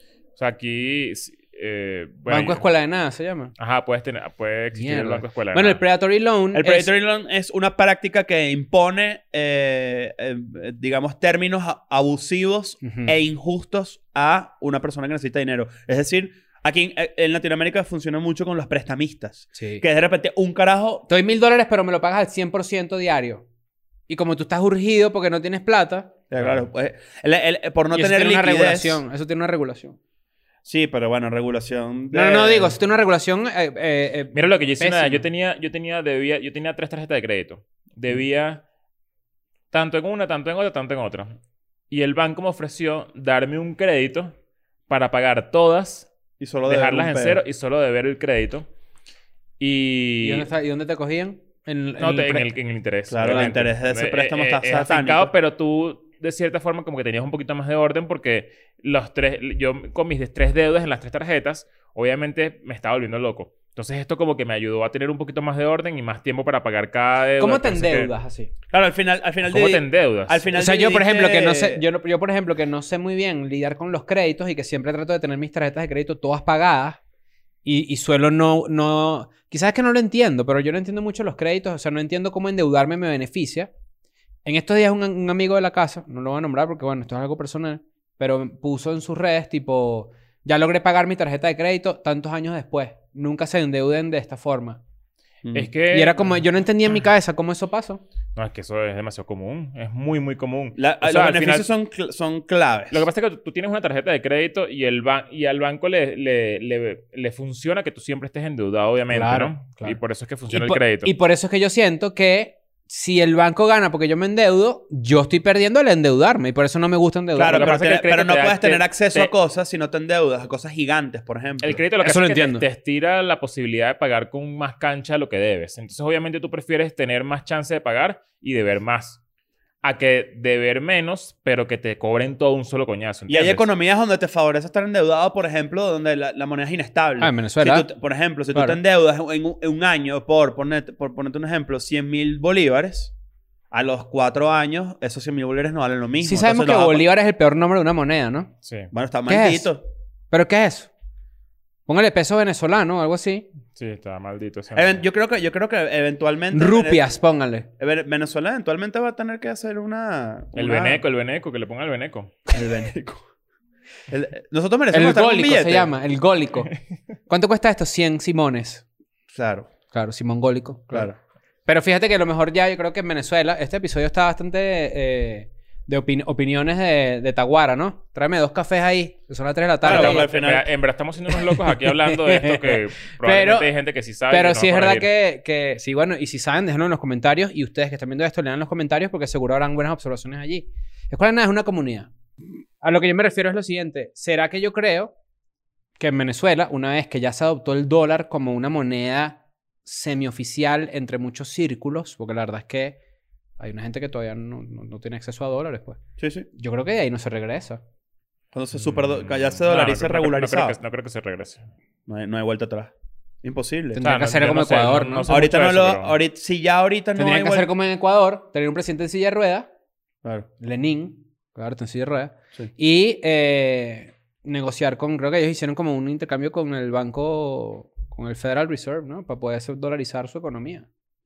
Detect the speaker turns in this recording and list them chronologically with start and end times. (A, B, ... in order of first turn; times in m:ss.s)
0:00.4-0:02.6 A
0:02.3-0:03.5 B
0:03.6-0:05.8 A
0:04.7-0:06.9 B
0:06.5-0:21.1 C
0:12.8-0:13.1 B
0:19.5-0:19.8 B
0:21.1-0:23.4 B
0:24.1-0:26.1 B
0:26.3-0:29.0 C
0:26.4-0:26.6 A
0:27.9-0:30.0 B
0:30.6-0:32.8 C
0:32.1-0:35.2 B
0:34.3-0:38.6 A
0:39.7-0:41.4 A
0:41.9-0:44.3 A
0:44.9-0:46.1 A
0:46.4-0:47.4 C
0:46.6-0:48.7 A
0:49.6-0:50.5 A
0:50.2-0:52.4 B
0:52.0-1:08.1 A
0:53.1-0:55.3 C
1:07.4-1:08.5 B
1:08.7-1:11.8 C
1:09.5-1:10.5 A
1:10.5-1:17.0 B
1:17.6-1:23.7 B
1:24.4-1:34.8 B
1:35.4-1:35.7 C
1:35.5-1:36.3 A
1:35.9-1:38.0 B
1:38.4-1:41.7 A
1:40.8-1:43.0 C
1:42.9-1:51.1 A
1:49.1-1:50.0 B
1:50.5-1:57.8 B
1:57.4-2:01.8 C
1:57.4-1:59.3 A
2:01.6-2:09.2 A
2:02.0-2:02.6 B
2:09.8-2:13.6 A
2:13.3-2:23.1 C
2:17.2-2:17.9 B
2:23.7-2:27.0 C
2:26.2-2:28.5 B
2:28.6-2:28.9 A
2:28.9-2:29.8 C
2:29.3-2:29.7 B
2:30.3-2:30.9 B
2:31.9-2:33.5 B
2:33.7-2:35.0 A
2:34.7-2:37.0 C
2:36.5-2:37.7 B
2:37.8-2:41.0 C
2:40.5-2:42.3 A
2:42.5-2:43.2 C
2:44.1-2:45.9 C
2:44.9-2:46.7 B
2:47.3-2:48.8 B
2:49.3-2:49.7 C
2:49.9-2:51.1 B
2:50.9-2:51.2 C
2:51.6-3:00.3 B
2:59.8-3:00.7 C
2:59.8-3:05.1 A
3:01.7-3:03.7 B
3:04.3-3:12.1 B
3:12.8-3:15.1 B
3:16.0-3:23.0 B
3:23.6-3:26.0 B
3:26.2-3:26.5 C
3:26.5-3:27.8 B
3:28.5-3:30.8 C
3:28.8-3:31.6 A
3:32.1-3:32.9 C
3:33.4-3:34.0 C
3:34.0-3:35.3 B
3:34.0-3:36.2 A
3:35.3-3:37.7 C
3:37.2-3:39.7 B
3:40.6-3:50.8 B